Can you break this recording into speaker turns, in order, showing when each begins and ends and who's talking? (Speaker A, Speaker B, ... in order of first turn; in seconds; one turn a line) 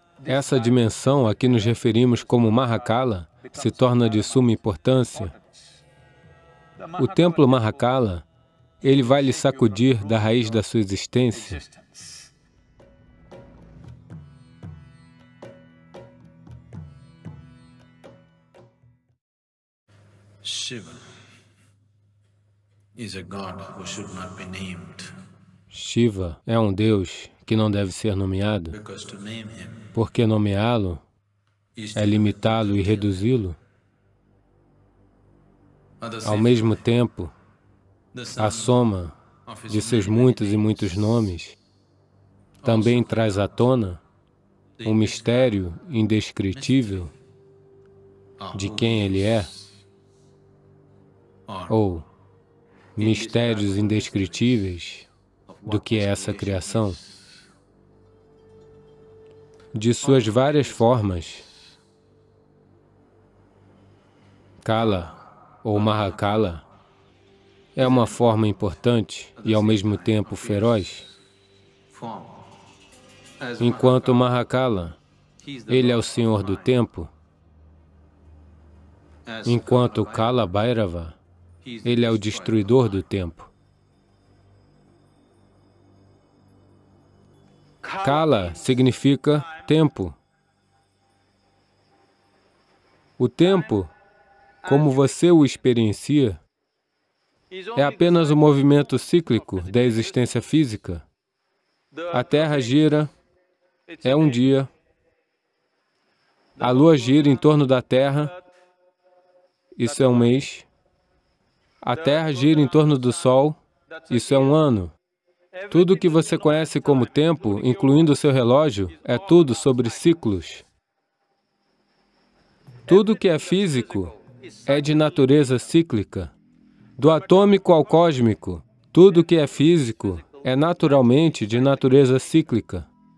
Speaker A: 0.2-5.3
Speaker B: 0.2-0.8
Speaker B: 3.6-4.3
Speaker B: 6.9-7.3
Speaker A: 7.0-8.2
Speaker A: 8.8-11.6
Speaker B: 9.2-9.6
Speaker B: 20.4-21.1
Speaker B: 23.0-25.1
Speaker A: 25.7-28.8
Speaker B: 28.8-29.9
Speaker A: 29.9-31.0
Speaker B: 31.8-33.1
Speaker A: 31.9-33.6
Speaker B: 36.0-36.7
Speaker A: 36.2-37.3
Speaker B: 38.1-38.8
Speaker A: 38.4-39.2
Speaker B: 39.5-40.7
Speaker A: 39.7-41.6
Speaker B: 42.6-43.5
Speaker A: 42.6-44.0
Speaker B: 44.8-45.6
Speaker A: 44.8-47.1
Speaker B: 48.4-49.5
Speaker A: 48.5-49.5
Speaker A: 51.7-52.1
Speaker A: 53.0-55.1
Speaker B: 53.0-54.3
Speaker B: 55.5-57.0
Speaker A: 55.7-57.0
Speaker A: 59.7-61.5
Speaker B: 60.0-60.7
Speaker A: 64.6-66.7
Speaker B: 65.9-66.2
Speaker A: 67.8-71.1
Speaker B: 67.8-68.1
Speaker B: 69.4-70.7
Speaker B: 71.9-72.5
Speaker B: 73.4-74.2
Speaker A: 73.6-75.0
Speaker B: 75.4-76.7
Speaker A: 75.7-77.1
Speaker B: 79.3-80.3
Speaker A: 79.5-81.2
Speaker B: 81.7-82.9
Speaker A: 81.8-83.5
Speaker B: 87.8-88.6
Speaker A: 88.0-90.2
Speaker A: 93.2-93.9
Speaker A: 94.6-96.4
Speaker B: 97.5-98.3
Speaker A: 97.8-101.1
Speaker B: 102.0-102.7
Speaker A: 102.1-103.1
Speaker B: 104.0-104.4
Speaker A: 104.0-104.7
Speaker A: 106.6-108.3
Speaker A: 109.8-110.7
Speaker A: 111.8-114.9
Speaker A: 115.7-120.7
Speaker B: 115.7-116.8
Speaker B: 117.5-117.9
Speaker A: 122.9-126.3
Speaker B: 123.3-124.1
Speaker A: 127.0-132.9